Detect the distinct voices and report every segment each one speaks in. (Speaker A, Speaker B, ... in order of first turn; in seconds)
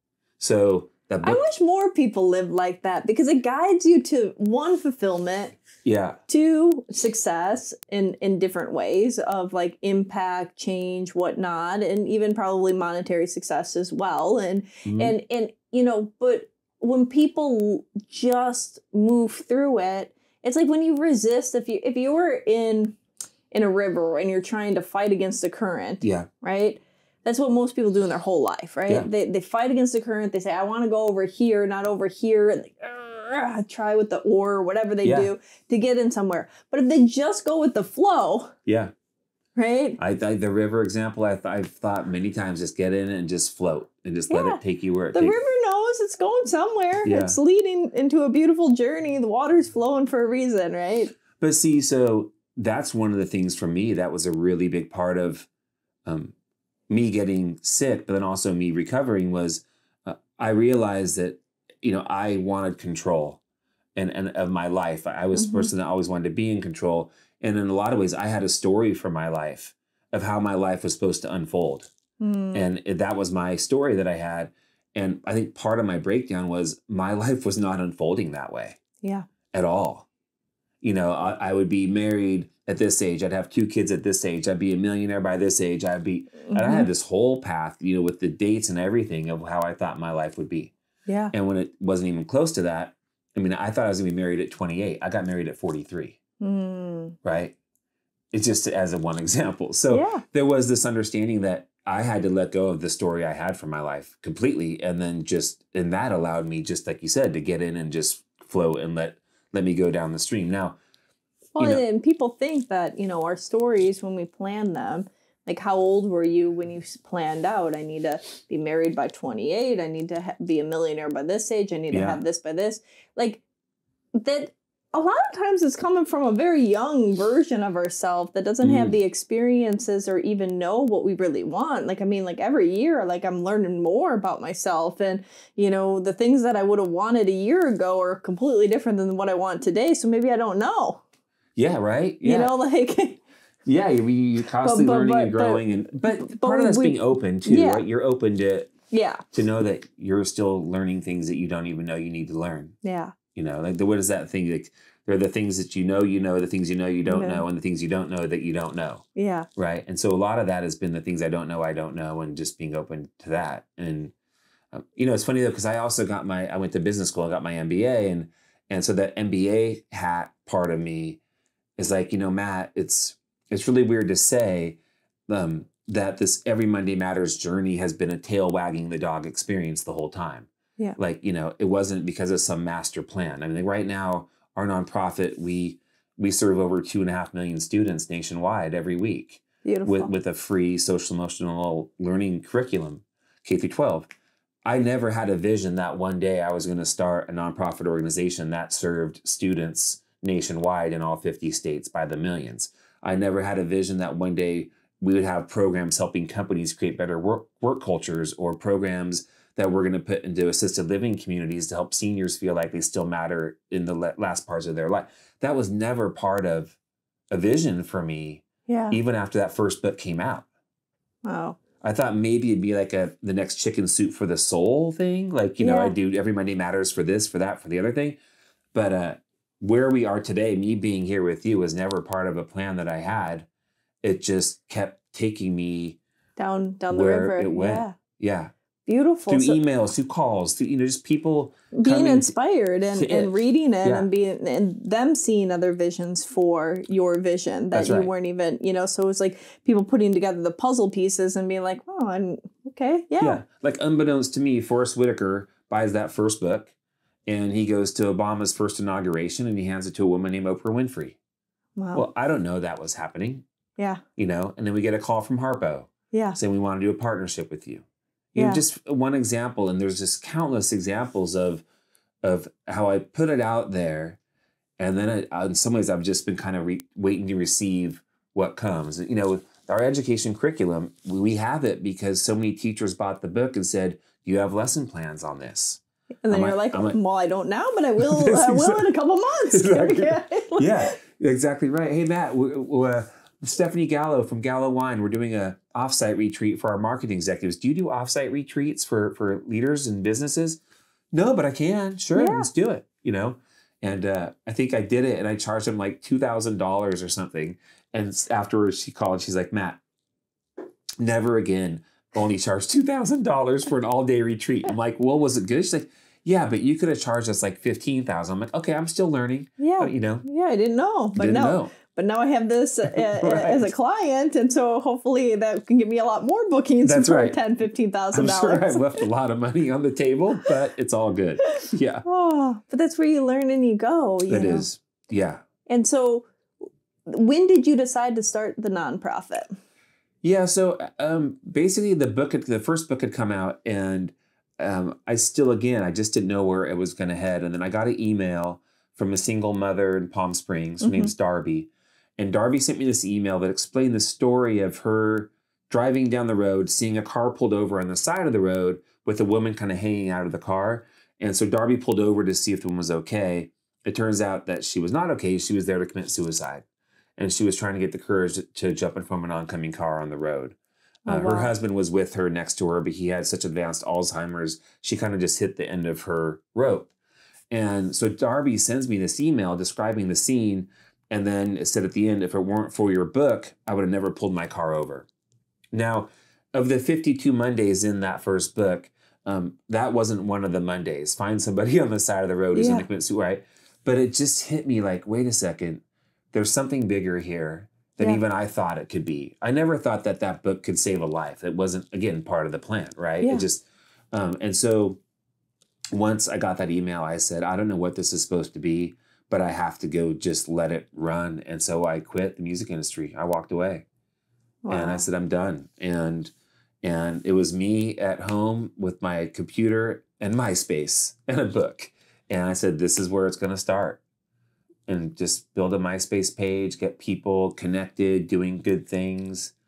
Speaker A: 0.4-1.4, 5.8-6.2, 14.8-15.1, 26.0-26.3, 35.0-35.3, 38.6-38.9, 40.0-45.4, 47.0-47.4, 51.4-55.5, 56.0-56.3, 56.9-63.4, 64.0-71.9, 72.5-78.8, 79.5-80.1, 80.8-90.7, 91.3-96.2, 97.2-97.5, 98.3-110.8, 121.9-122.2, 128.6-128.9, 141.6-142.5, 143.6-148.7, 149.3-152.7, 153.3-159.0, 159.6-164.1, 164.7-171.2, 171.8-194.1, 194.6-216.8, 217.3-220.4, 221.8-228.2, 228.7-233.5, 234.0-236.0, 236.9-238.5, 239.3-242.3, 242.9-244.1, 247.7-248.1, 253.2-256.7, 257.3-261.2, 261.9-263.4, 264.2-271.6, 272.2-274.2, 274.8-287.0, 288.0-288.9, 289.5-300.6, 301.1-309.8, 311.0-320.2, 321.1-321.7, 322.9-323.7, 326.8-327.4, 328.1-332.0, 334.3-335.4, 340.2-366.6, 367.2-370.6, 371.1-376.9, 377.5-385.1, 385.7-405.0, 405.9-413.9, 414.7-416.3, 416.8-424.0, 424.9-429.5
Speaker B: 1.2-5.5, 6.3-23.0, 23.5-38.5, 39.5-40.0, 44.3-44.6, 45.1-51.1, 65.3-65.7, 72.2-72.7, 86.4-86.9, 91.1-91.3, 96.4-97.2, 99.9-100.2, 111.5-123.4, 124.2-141.0, 142.2-143.2, 144.6-147.8, 148.9-149.2, 152.8-153.1, 157.1-157.4, 159.1-159.5, 189.6-190.1, 218.7-219.0, 221.2-221.6, 225.6-225.9, 236.4-237.9, 238.8-239.6, 241.7-253.4, 261.8-262.0, 266.1-266.4, 268.4-268.6, 286.2-291.0, 302.1-302.5, 319.6-329.0, 331.6-334.6, 335.7-336.3, 337.1-339.5, 350.8-351.1, 371.1-371.5, 392.5-392.9, 414.6-415.0